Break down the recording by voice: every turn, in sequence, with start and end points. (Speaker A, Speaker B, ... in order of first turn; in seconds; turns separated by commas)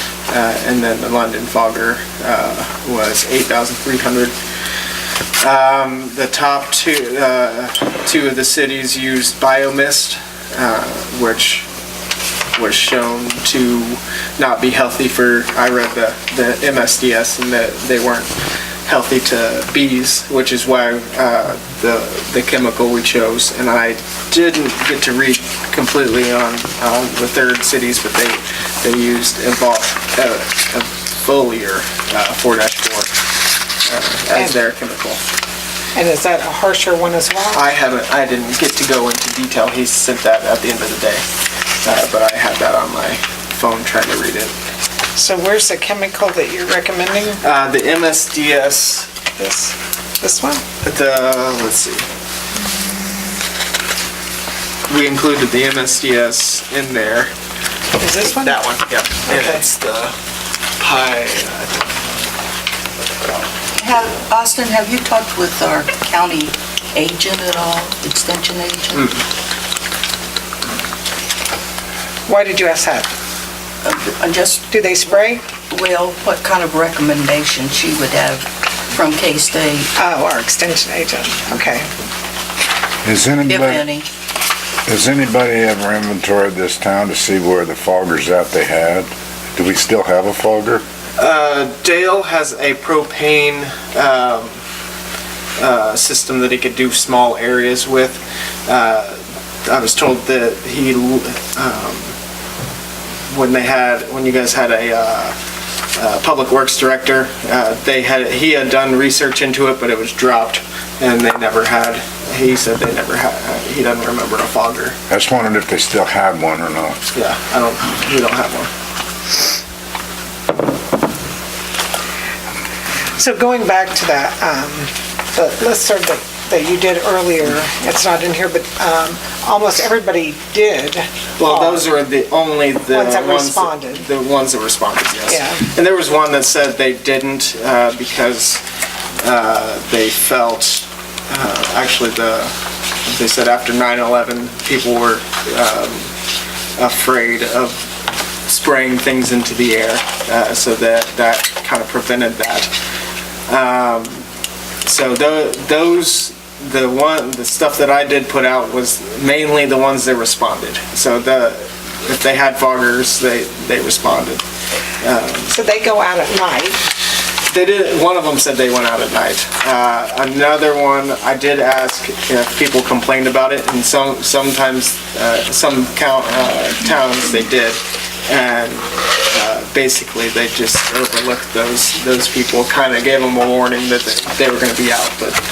Speaker A: 0.3-4.3, Speaker A: 5.4-11.7, Speaker A: 12.5-18.3, Speaker A: 18.9-33.1, Speaker A: 33.8-35.2, Speaker B: 35.9-37.6, Speaker A: 37.5-41.2, Speaker A: 41.8-44.5, Speaker B: 45.1-47.4, Speaker A: 47.4-49.1, Speaker B: 49.4-50.6, Speaker A: 50.8-52.0, Speaker A: 54.9-57.3, Speaker B: 58.0-58.6, Speaker A: 58.3-60.1, Speaker B: 59.2-59.6, Speaker A: 60.8-61.9, Speaker C: 63.8-69.1, Speaker A: 68.9-69.2, Speaker B: 72.3-73.1, Speaker C: 73.8-79.9, Speaker B: 74.7-75.4, Speaker B: 80.0-81.9, Speaker D: 83.0-83.9, Speaker C: 83.5-84.0, Speaker D: 84.9-90.8, Speaker A: 91.2-94.6, Speaker A: 95.6-102.1, Speaker A: 103.3-105.4, Speaker A: 105.9-115.0, Speaker D: 115.1-117.0, Speaker A: 117.1-118.7, Speaker B: 123.2-131.9, Speaker A: 131.4-138.6, Speaker B: 132.9-134.1, Speaker B: 135.3-135.6, Speaker A: 139.2-142.5, Speaker A: 143.0-146.1, Speaker A: 146.8-147.8, Speaker A: 148.4-152.7, Speaker A: 153.5-154.2, Speaker A: 154.8-164.4, Speaker A: 165.0-165.5, Speaker B: 165.5-166.8, Speaker A: 167.5-185.4